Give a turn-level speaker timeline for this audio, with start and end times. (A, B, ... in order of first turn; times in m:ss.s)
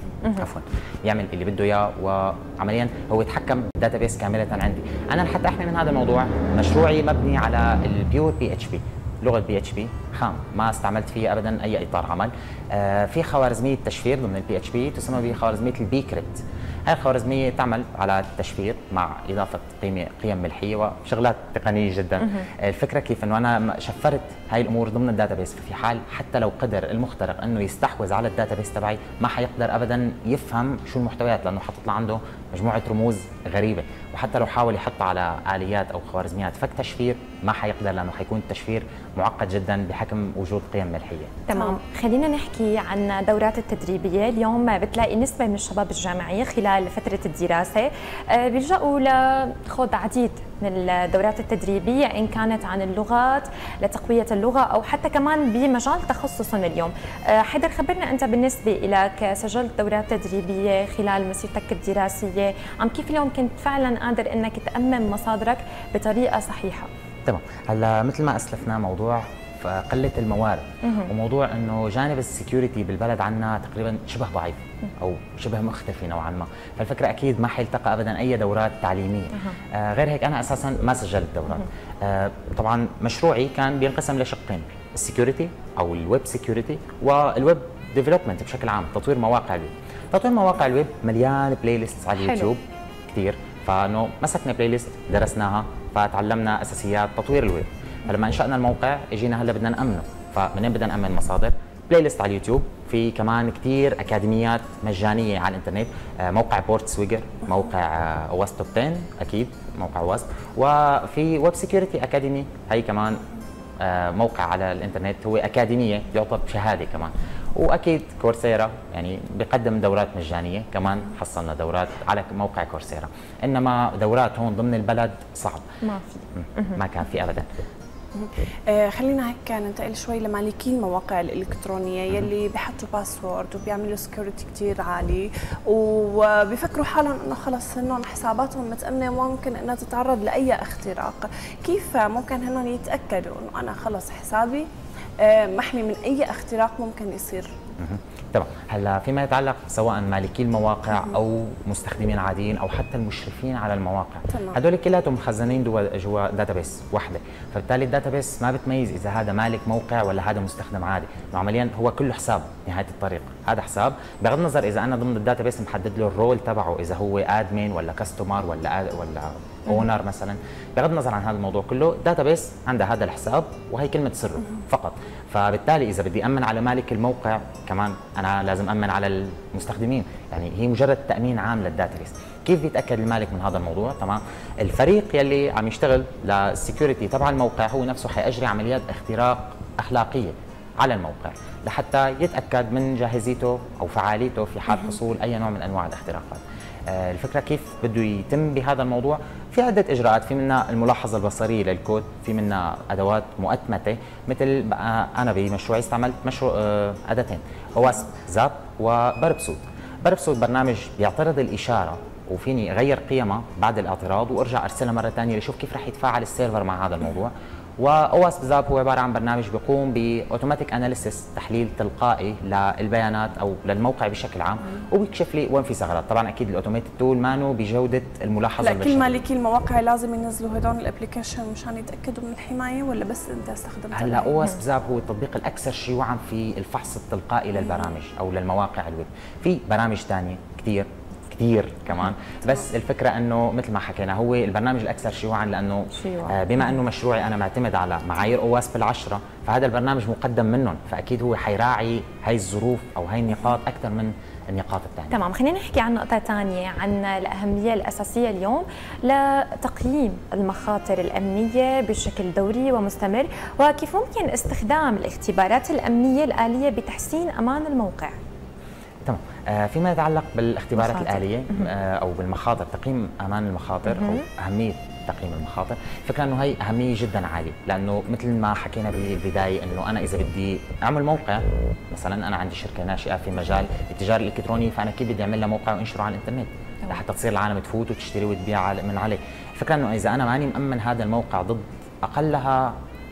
0:00.4-0:41.4 A
0:41.5-1:06.9 B
1:07.2-1:53.2 A
1:10.8-1:11.1 B
1:32.2-1:32.5 B
1:53.8-2:05.6 A
2:05.8-2:06.8 B
2:06.3-2:07.5 A
2:08.1-2:24.7 C
2:25.2-2:27.5 C
2:27.8-3:49.1 A
2:34.3-2:34.6 C
3:48.6-3:54.3 C
3:53.9-4:15.2 A
4:06.0-4:06.4 B
4:15.1-4:28.2 B
4:29.0-4:52.8 A
4:30.8-4:31.7 B
4:33.8-4:34.2 B